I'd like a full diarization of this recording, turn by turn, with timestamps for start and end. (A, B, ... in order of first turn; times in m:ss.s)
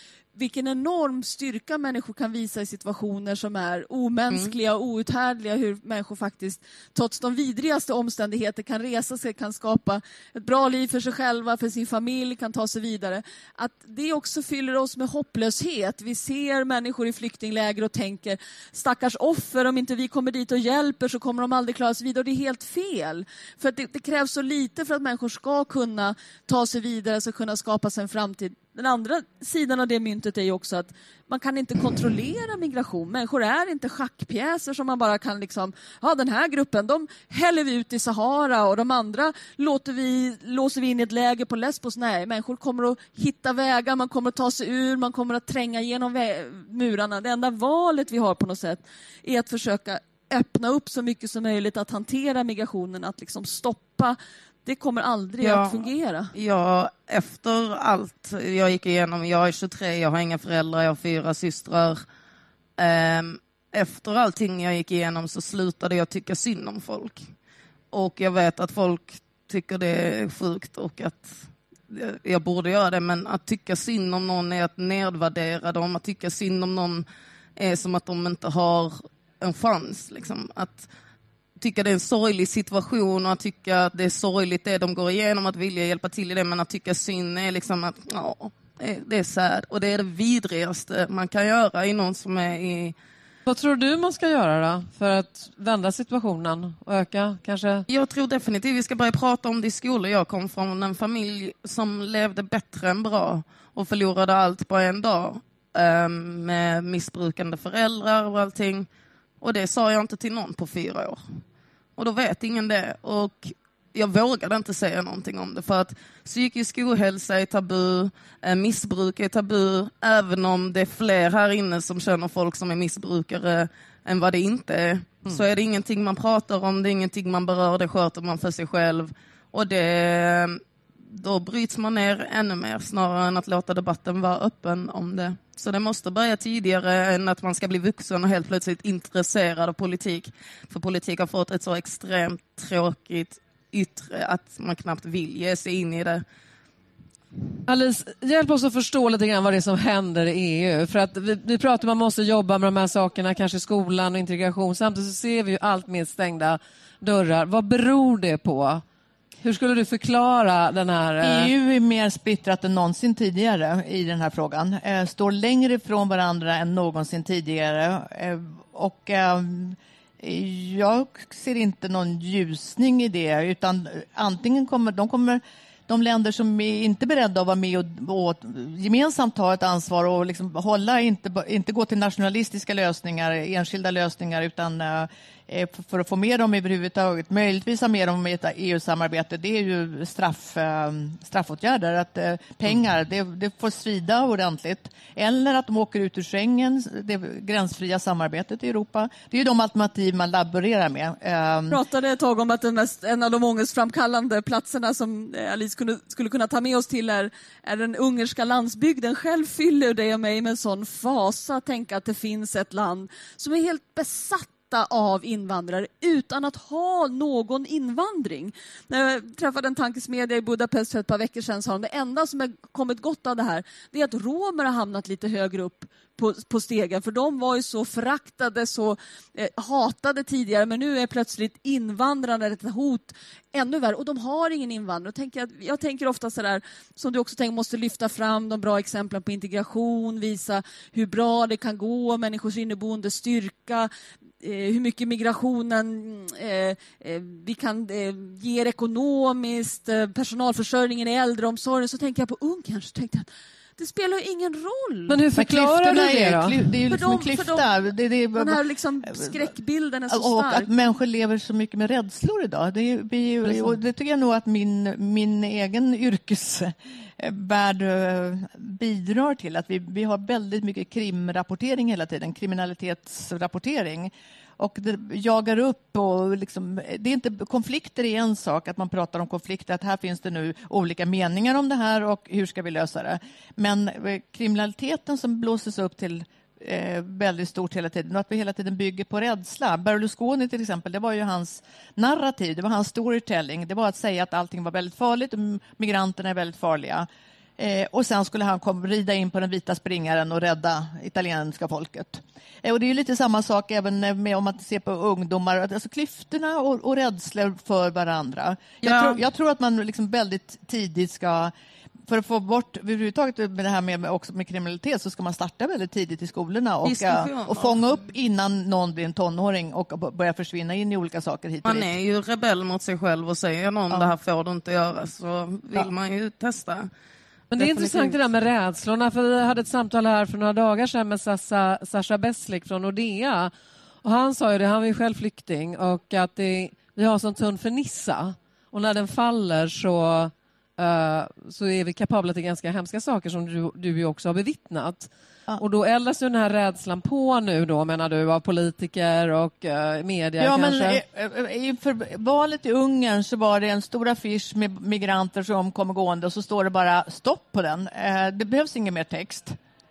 0:00.3-0:56.3 A
0:55.4-1:02.0 B
1:02.8-1:07.3 B
1:07.9-1:20.9 B
1:21.6-1:33.0 B
1:33.4-1:37.8 C
1:37.9-1:48.9 B
1:49.4-1:51.4 B
1:52.0-2:26.2 B
2:27.6-2:38.8 C
2:39.4-2:41.5 C
2:41.2-3:21.8 D
3:21.7-4:03.9 A
4:04.4-4:15.2 A
4:15.1-4:16.7 C
4:15.3-4:19.4 D
4:16.9-4:17.7 A
4:18.4-4:20.7 A
4:20.1-4:57.1 D
4:23.4-4:23.8 C
4:57.6-5:11.5 D
5:08.8-5:09.2 B
5:12.1-5:21.9 D
5:16.8-5:17.8 B
5:21.6-5:26.9 B
5:27.5-5:51.0 C
5:27.6-5:28.2 B
5:50.4-5:59.6 D